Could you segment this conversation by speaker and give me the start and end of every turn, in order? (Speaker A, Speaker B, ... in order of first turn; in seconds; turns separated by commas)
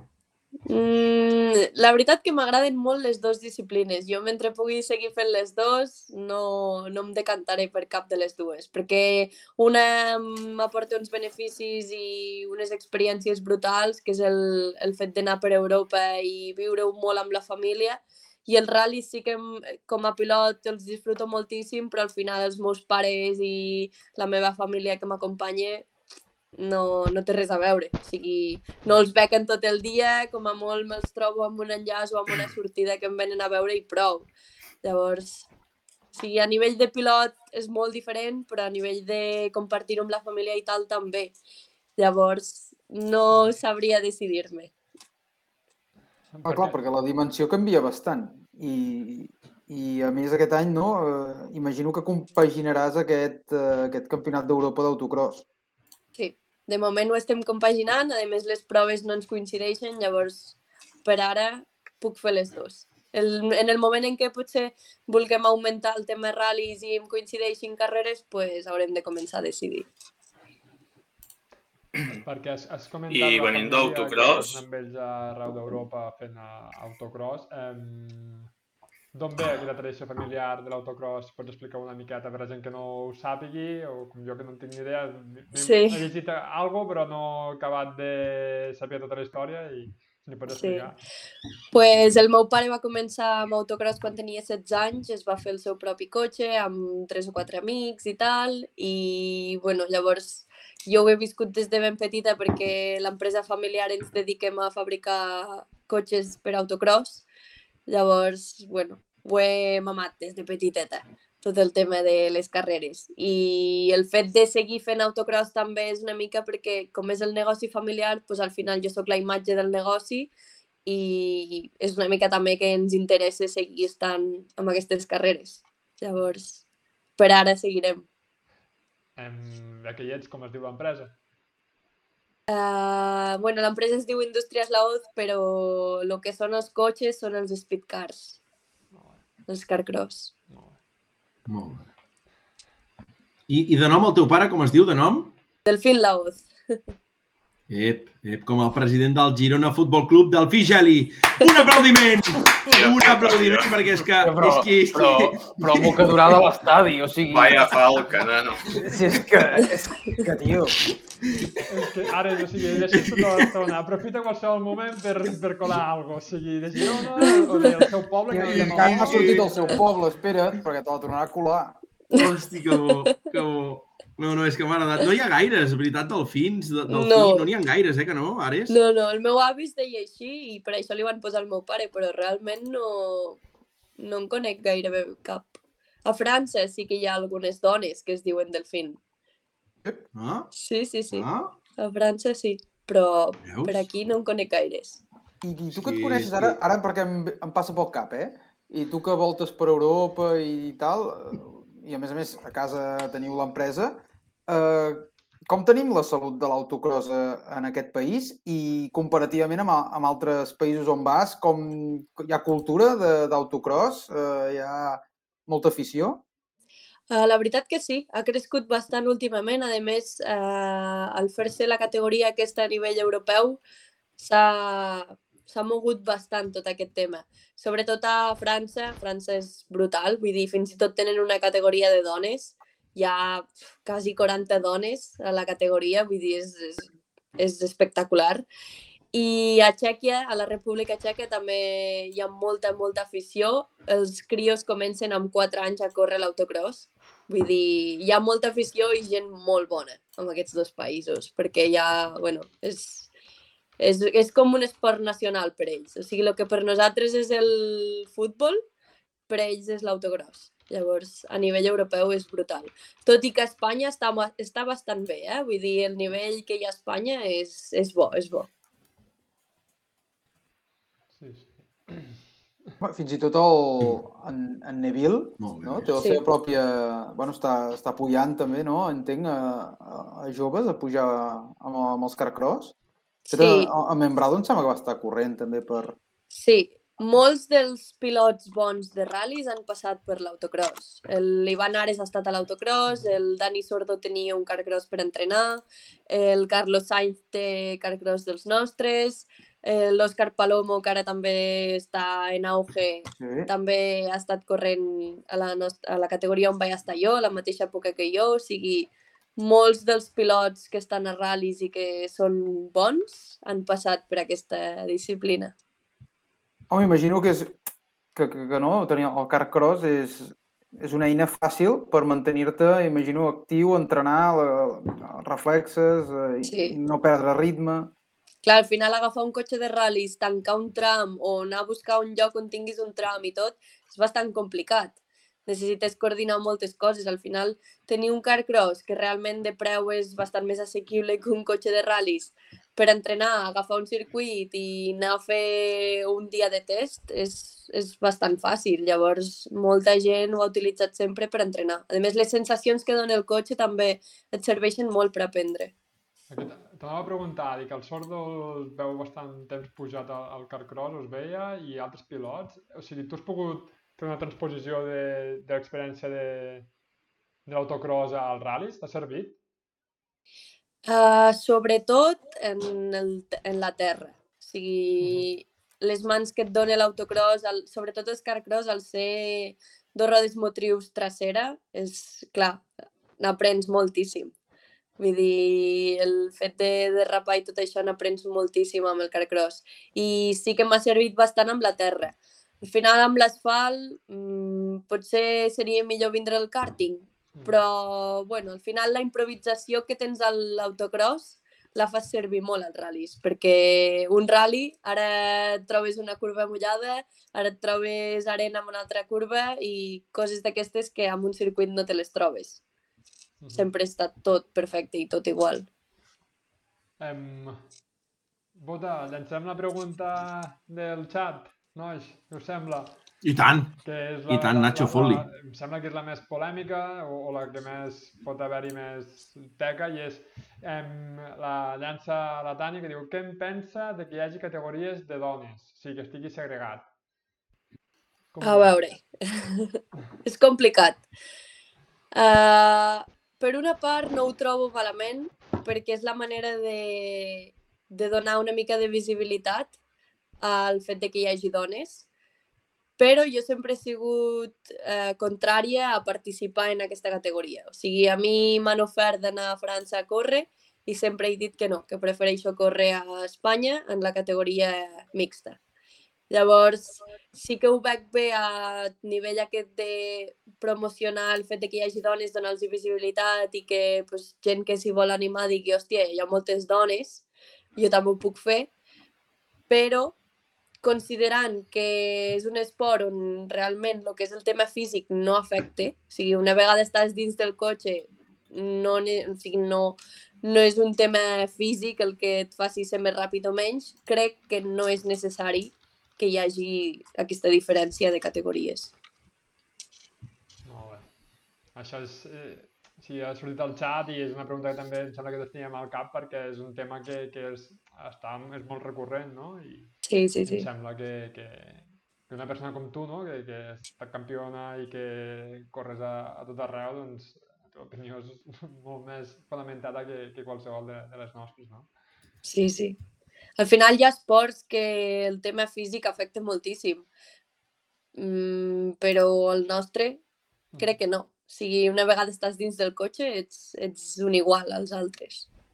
Speaker A: 0.7-25.9, Speaker A: 26.6-34.3, Speaker A: 34.8-35.5, Speaker A: 36.1-41.3, Speaker A: 42.0-44.7, Speaker B: 46.3-46.8, Speaker C: 46.5-55.5, Speaker A: 56.1-69.9, Speaker B: 72.1-78.5, Speaker D: 73.1-74.6, Speaker B: 79.1-91.0, Speaker A: 85.5-86.0, Speaker A: 90.5-90.9, Speaker A: 91.7-107.2, Speaker A: 107.9-120.3, Speaker A: 120.8-126.6, Speaker A: 127.2-128.1, Speaker B: 129.2-131.2, Speaker A: 132.5-138.4, Speaker B: 138.9-139.2, Speaker A: 139.5-140.3, Speaker B: 140.5-140.8, Speaker E: 141.5-141.9, Speaker E: 143.5-145.3, Speaker A: 145.7-146.8, Speaker E: 147.7-156.4, Speaker D: 152.7-153.8, Speaker C: 154.2-157.7, Speaker D: 157.3-158.7, Speaker C: 158.7-160.8, Speaker B: 161.6-169.8, Speaker E: 162.8-163.5, Speaker A: 167.3-167.7, Speaker C: 168.3-171.8, Speaker E: 168.4-169.7, Speaker E: 172.1-178.8, Speaker A: 172.9-173.1, Speaker A: 176.9-177.5, Speaker A: 178.7-183.4, Speaker A: 184.0-189.0, Speaker E: 190.1-190.5, Speaker A: 190.5-195.0, Speaker E: 191.1-191.5, Speaker E: 193.4-193.9, Speaker C: 195.4-216.2, Speaker E: 195.7-196.6, Speaker A: 217.1-223.6, Speaker A: 224.2-238.4, Speaker A: 239.1-253.1, Speaker A: 253.8-258.6, Speaker A: 259.3-268.5, Speaker B: 271.2-272.2, Speaker C: 272.8-282.7, Speaker E: 275.4-275.9, Speaker A: 283.3-283.7, Speaker C: 283.3-286.0, Speaker A: 286.3-315.5, Speaker B: 292.9-293.2, Speaker C: 303.2-303.5, Speaker C: 316.7-317.5, Speaker C: 318.1-327.9, Speaker A: 326.4-326.8, Speaker A: 328.4-355.7, Speaker B: 356.3-366.7, Speaker B: 367.5-369.4, Speaker A: 370.9-382.6, Speaker B: 375.0-375.3, Speaker A: 383.2-384.3, Speaker A: 385.0-412.6, Speaker B: 397.3-397.6, Speaker B: 413.4-413.7, Speaker A: 413.5-415.7, Speaker B: 417.0-417.7, Speaker B: 418.6-423.0, Speaker E: 423.2-423.8, Speaker B: 423.8-436.9, Speaker E: 424.3-425.2, Speaker B: 438.3-438.8, Speaker A: 438.4-441.0, Speaker A: 442.1-449.7, Speaker A: 450.4-452.1, Speaker A: 453.0-465.6, Speaker A: 466.3-478.7, Speaker A: 479.7-480.1, Speaker A: 480.8-498.9, Speaker B: 500.6-501.1, Speaker B: 501.7-521.9, Speaker A: 510.0-510.7, Speaker A: 522.4-523.0, Speaker A: 523.6-527.0, Speaker A: 528.1-530.2, Speaker B: 530.7-531.0, Speaker A: 530.8-535.5